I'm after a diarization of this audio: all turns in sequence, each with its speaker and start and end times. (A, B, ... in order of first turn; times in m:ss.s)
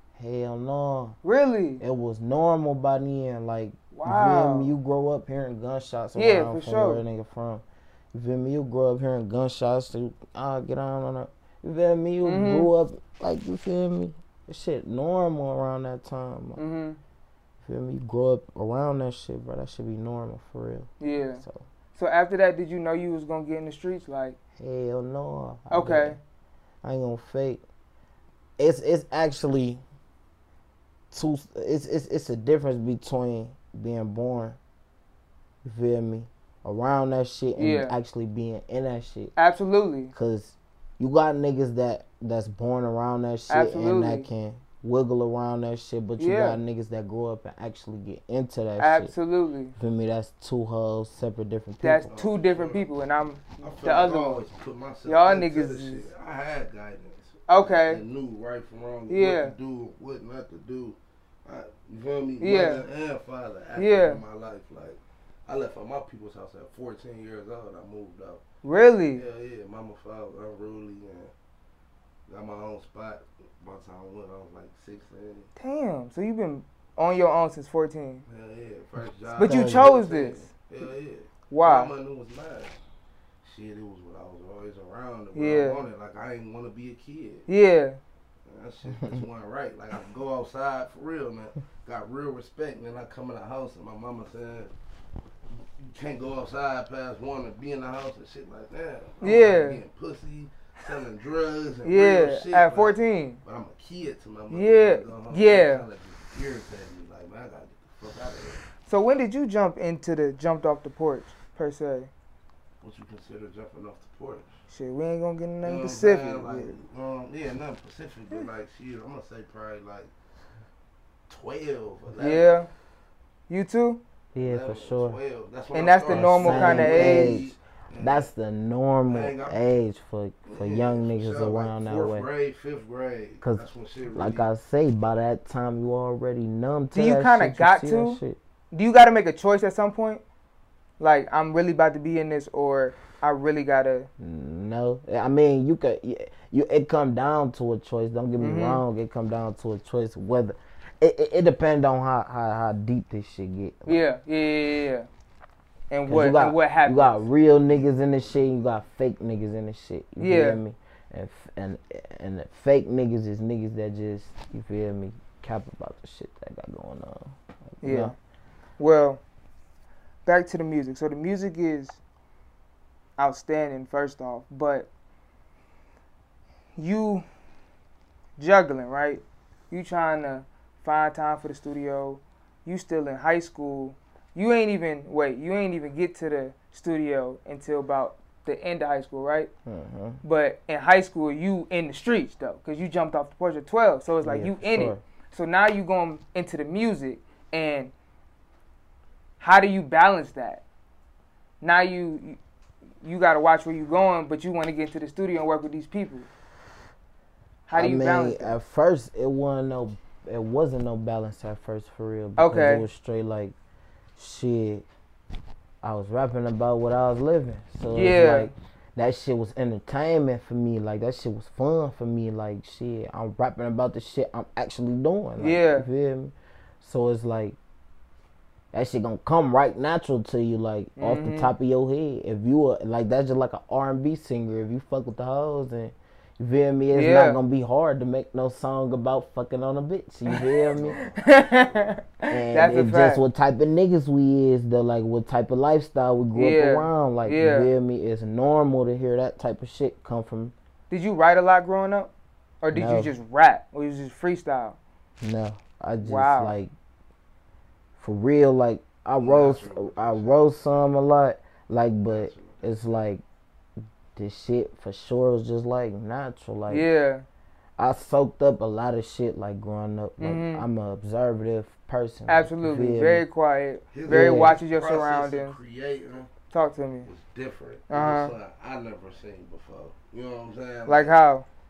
0:00.2-0:01.2 A
0:01.2-0:01.8 B
0:01.8-0:16.6 A
0:03.9-0:04.7 B
0:06.2-0:07.0 B
0:12.2-0:12.7 B
0:16.6-0:17.0 B
0:17.6-0:21.7 A
0:21.0-0:21.4 B
0:22.0-0:24.4 B
0:24.6-0:26.2 A
0:25.7-0:26.2 B
0:26.8-0:27.6 A
0:28.6-0:29.8 A
0:31.1-0:34.6 A
0:35.6-0:39.3 A
0:37.6-0:38.0 B
0:39.4-0:40.1 B
0:40.1-0:49.1 A
0:43.5-0:44.3 B
0:46.2-0:46.6 B
0:48.8-0:49.7 B
0:49.8-0:52.1 A
0:51.8-0:54.4 B
0:52.1-0:52.8 C
0:53.6-1:08.4 C
0:55.1-0:56.1 B
0:57.5-0:58.0 B
0:59.1-0:59.6 B
1:02.4-1:02.8 B
1:03.8-1:04.2 B
1:08.6-1:09.2 B
1:09.1-1:11.3 C
1:12.3-1:15.5 C
1:15.6-1:18.2 B
1:18.3-1:22.8 C
1:19.4-1:20.5 B
1:19.4-1:19.9 A
1:21.5-1:21.9 B
1:23.4-1:27.5 C
1:25.3-1:25.8 B
1:27.5-1:28.0 B
1:28.5-1:34.7 C
1:35.6-1:48.6 C
1:39.2-1:39.8 B
1:41.8-1:43.4 B
1:44.5-1:45.8 B
1:48.9-1:52.1 B
1:52.8-1:54.6 C
1:54.7-1:56.7 B
1:55.6-2:00.1 C
2:01.3-2:02.5 C
2:02.2-2:02.7 B
2:03.5-2:04.0 B
2:04.4-2:05.2 A
2:04.4-2:08.3 C
2:05.7-2:07.4 B
2:06.1-2:12.3 A
2:09.1-2:09.6 C
2:10.5-2:14.4 C
2:13.4-2:18.4 A
2:16.9-2:18.2 B
2:18.7-2:20.2 B
2:21.0-2:24.1 B
2:24.2-2:34.0 A
2:28.4-2:28.8 B
2:33.9-2:35.1 B
2:35.9-2:37.2 B
2:36.1-2:48.1 A
2:40.2-2:40.6 B
2:47.8-2:48.2 B
2:48.8-2:49.2 B
2:50.3-2:52.0 B
2:53.2-2:54.9 B
2:56.8-2:57.3 B
2:58.4-3:09.5 B
3:09.6-3:10.2 A
3:10.2-3:17.9 B
3:14.2-3:15.0 A
3:19.4-3:20.6 B
3:21.6-3:22.4 B
3:23.0-3:26.3 B
3:27.7-3:28.6 B
3:27.7-3:33.6 A
3:32.4-3:32.9 B
3:34.2-3:34.8 A
3:35.8-3:47.6 A
3:37.9-3:38.5 B
3:45.4-3:45.9 B
3:48.7-4:01.1 A
3:51.0-3:51.5 B
3:56.9-3:57.4 B
4:00.3-4:03.2 B
4:00.7-4:02.0 C
4:02.3-4:10.5 A
4:06.4-4:07.7 B
4:10.9-4:12.1 B
4:12.6-4:14.8 B
4:12.7-4:13.1 A
4:15.2-4:16.7 A
4:16.0-4:16.6 B
4:18.0-4:23.2 A
4:19.2-4:20.4 C
4:22.0-4:23.0 C
4:24.2-4:26.9 A
4:26.7-4:27.2 B
4:27.8-4:33.2 A
4:30.2-4:30.7 B
4:32.3-4:35.6 B
4:33.9-4:36.3 C
4:34.1-4:34.6 A
4:36.5-4:37.1 B
4:37.1-4:41.1 C
4:37.9-4:38.3 B
4:40.9-4:41.5 B